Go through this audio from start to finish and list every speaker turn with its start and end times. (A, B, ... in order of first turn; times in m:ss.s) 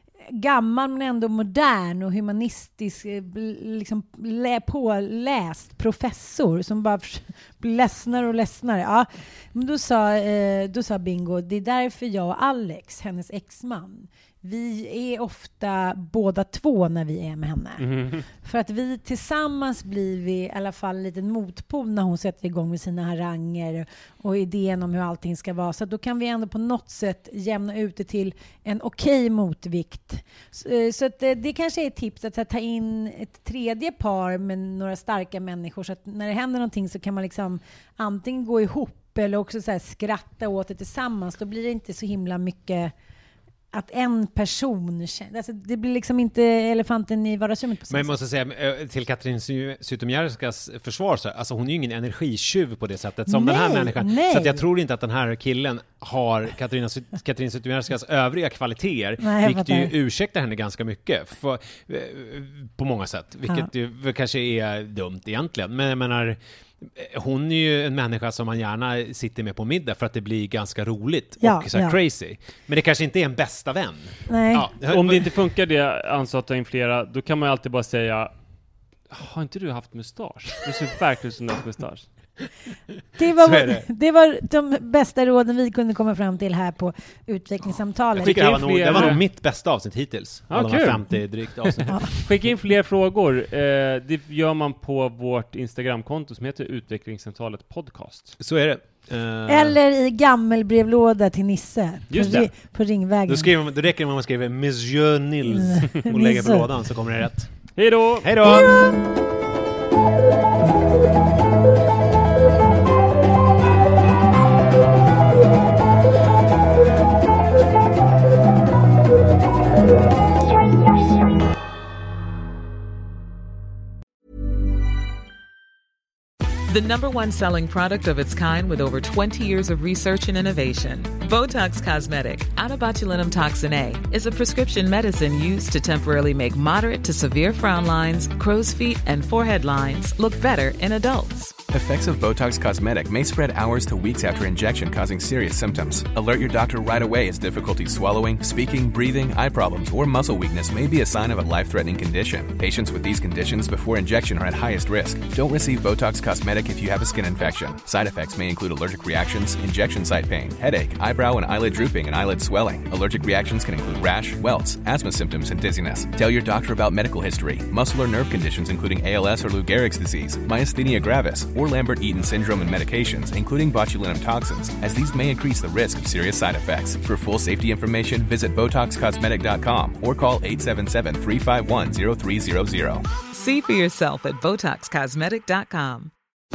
0:00.3-0:42.9 A
0:17.8-0:18.2 B
0:43.7-0:48.2 A
0:47.9-1:15.3 C
0:53.2-0:54.6 A
0:59.2-0:59.9 A
1:11.4-1:12.0 A
1:14.3-1:14.7 A
1:14.8-1:18.3 B
1:19.1-1:22.1 B
1:23.2-1:29.2 A
1:23.3-1:23.9 C
1:28.1-1:32.2 C
1:28.2-1:29.2 B
1:30.5-1:38.3 B
1:38.4-1:39.8 C
1:39.5-1:43.5 A
1:42.1-1:42.5 C
1:42.1-1:42.5 B
1:43.2-1:48.8 C
1:45.5-1:46.7 A
1:47.8-1:48.3 B
1:48.6-1:48.9 A
2:06.7-2:21.6 D
2:21.7-3:03.1 E
3:03.3-3:06.1 D